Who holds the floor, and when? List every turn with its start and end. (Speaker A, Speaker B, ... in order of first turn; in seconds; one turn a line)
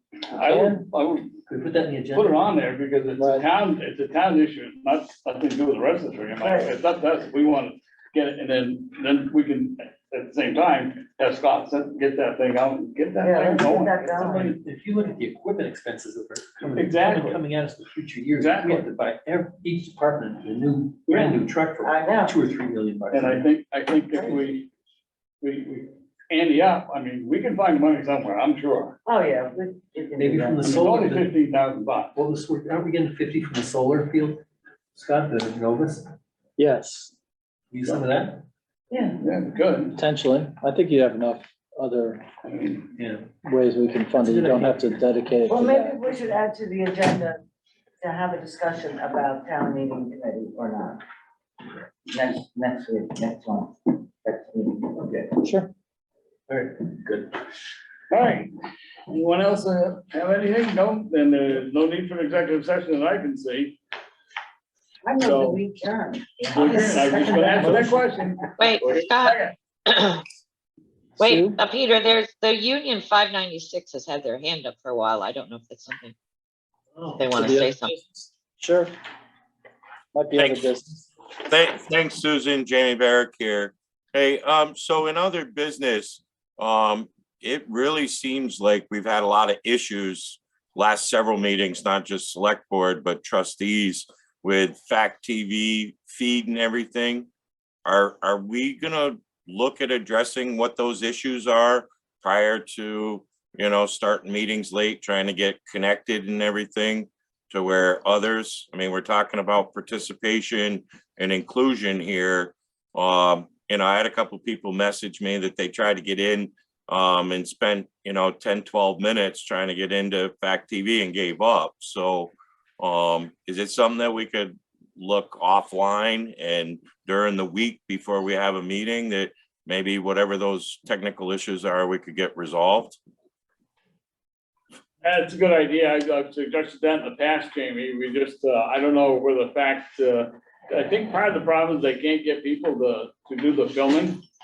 Speaker A: 0.3-1.4
Speaker B: 0.5-0.8
Speaker C: 1.5-2.6
Speaker A: 2.1-14.6
Speaker B: 3.2-3.5
Speaker D: 6.4-6.7
Speaker D: 13.2-14.5
Speaker C: 14.2-23.5
Speaker A: 16.8-17.4
Speaker A: 18.4-18.9
Speaker D: 21.1-22.4
Speaker A: 23.1-24.7
Speaker A: 25.4-29.0
Speaker D: 29.1-30.7
Speaker C: 30.2-31.3
Speaker A: 30.6-32.2
Speaker C: 32.1-34.4
Speaker C: 35.0-36.1
Speaker B: 36.6-37.1
Speaker C: 37.7-38.4
Speaker D: 38.9-39.2
Speaker A: 39.2-40.0
Speaker B: 40.0-42.2
Speaker A: 42.5-42.9
Speaker C: 43.0-43.4
Speaker B: 43.4-46.0
Speaker C: 44.1-45.0
Speaker D: 45.5-47.4
Speaker D: 48.0-51.0
Speaker D: 52.1-55.4
Speaker B: 55.4-55.7
Speaker C: 56.5-57.3
Speaker A: 58.1-58.5
Speaker A: 59.1-63.8
Speaker D: 65.0-68.3
Speaker A: 65.2-65.6
Speaker A: 66.5-69.5
Speaker E: 68.6-70.2
Speaker E: 71.2-76.2
Speaker B: 71.2-71.6
Speaker C: 77.0-77.3
Speaker E: 77.1-78.0
Speaker B: 77.3-78.9
Speaker B: 80.1-81.0
Speaker F: 80.3-80.7
Speaker F: 81.4-97.3
Speaker F: 97.8-133.0
Speaker A: 135.0-144.2